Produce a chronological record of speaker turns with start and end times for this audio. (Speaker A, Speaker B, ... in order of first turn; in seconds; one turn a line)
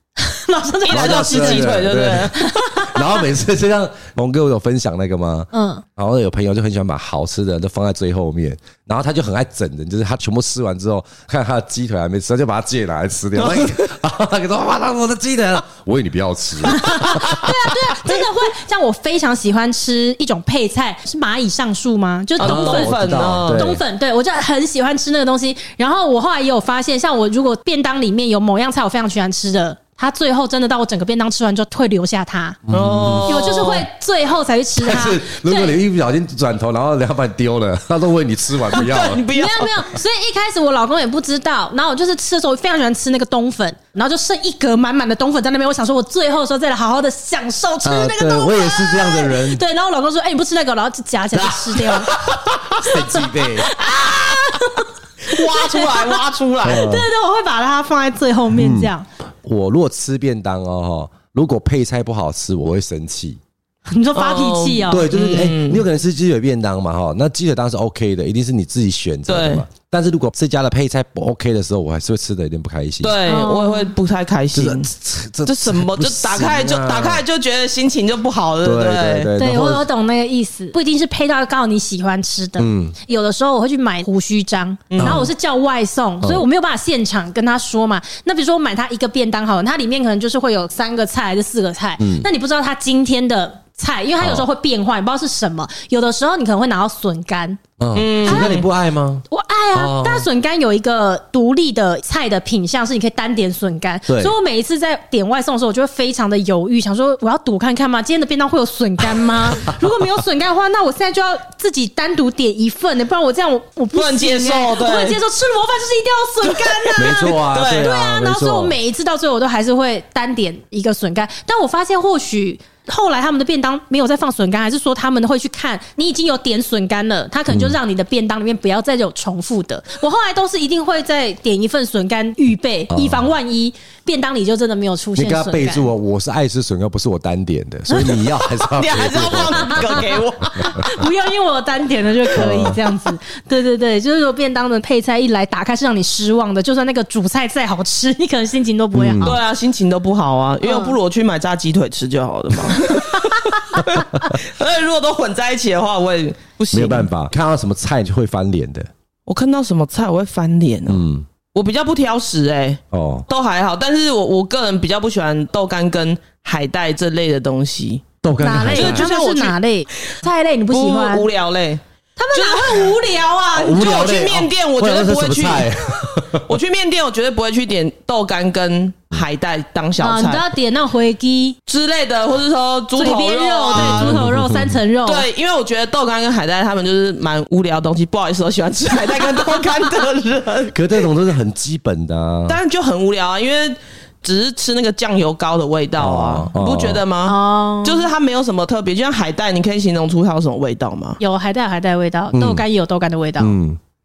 Speaker A: 0.2-1.8
Speaker B: 0.9-2.6
Speaker C: 0.9-17.7
Speaker A: 2.3-3.0
Speaker A: 5.5-5.8
Speaker A: 16.7-32.6
Speaker B: 22.4-23.7
Speaker C: 22.4-23.8
Speaker C: 32.7-33.4
Speaker B: 32.7-33.9
Speaker A: 33.3-35.8
Speaker C: 34.8-39.2
Speaker B: 38.7-39.7
Speaker A: 39.3-52.2
Speaker C: 47.8-49.6
Speaker C: 51.3-53.8
Speaker A: 52.7-59.1
Speaker B: 55.3-56.9
Speaker C: 56.6-57.1
Speaker C: 58.5-58.9
Speaker C: 59.4-63.4
Speaker A: 63.9-65.1
Speaker B: 64.2-65.8
Speaker C: 64.9-73.2
Speaker B: 69.3-69.7
Speaker B: 73.0-74.9
Speaker A: 73.3-73.9
Speaker C: 74.5-77.2
Speaker B: 75.5-79.3
Speaker C: 78.6-79.9
Speaker A: 79.4-97.6
Speaker C: 82.6-83.0
Speaker B: 84.9-85.3
Speaker C: 85.0-85.3
Speaker C: 92.0-92.3
Speaker C: 94.2-94.5
Speaker C: 97.8-100.3
Speaker B: 98.0-98.7
Speaker A: 98.2-98.6
Speaker A: 99.3-135.9
Speaker C: 104.1-104.3
Speaker B: 113.9-115.2
Speaker B: 116.4-117.9
Speaker C: 117.0-118.8
Speaker C: 127.5-127.8
Speaker C: 132.9-133.3
Speaker C: 135.2-140.9
Speaker B: 138.7-140.7
Speaker A: 139.7-149.4
Speaker C: 142.3-142.8
Speaker C: 148.9-149.4
Speaker B: 149.2-157.1
Speaker A: 150.6-151.0
Speaker C: 156.7-158.9
Speaker B: 159.3-168.1
Speaker C: 160.9-161.3
Speaker C: 162.9-163.3
Speaker C: 168.2-169.1
Speaker A: 168.4-171.3
Speaker B: 168.7-169.6
Speaker B: 170.7-171.8
Speaker A: 172.2-173.9
Speaker B: 172.3-173.0
Speaker C: 173.5-176.5
Speaker B: 173.7-180.4
Speaker A: 180.0-181.6
Speaker B: 181.7-184.2
Speaker A: 183.0-185.3
Speaker C: 183.7-184.8
Speaker B: 185.1-190.8
Speaker C: 190.7-192.6
Speaker B: 192.5-201.2
Speaker C: 196.0-197.0
Speaker A: 197.3-198.1
Speaker A: 201.2-203.6
Speaker C: 202.3-202.7
Speaker C: 203.4-203.8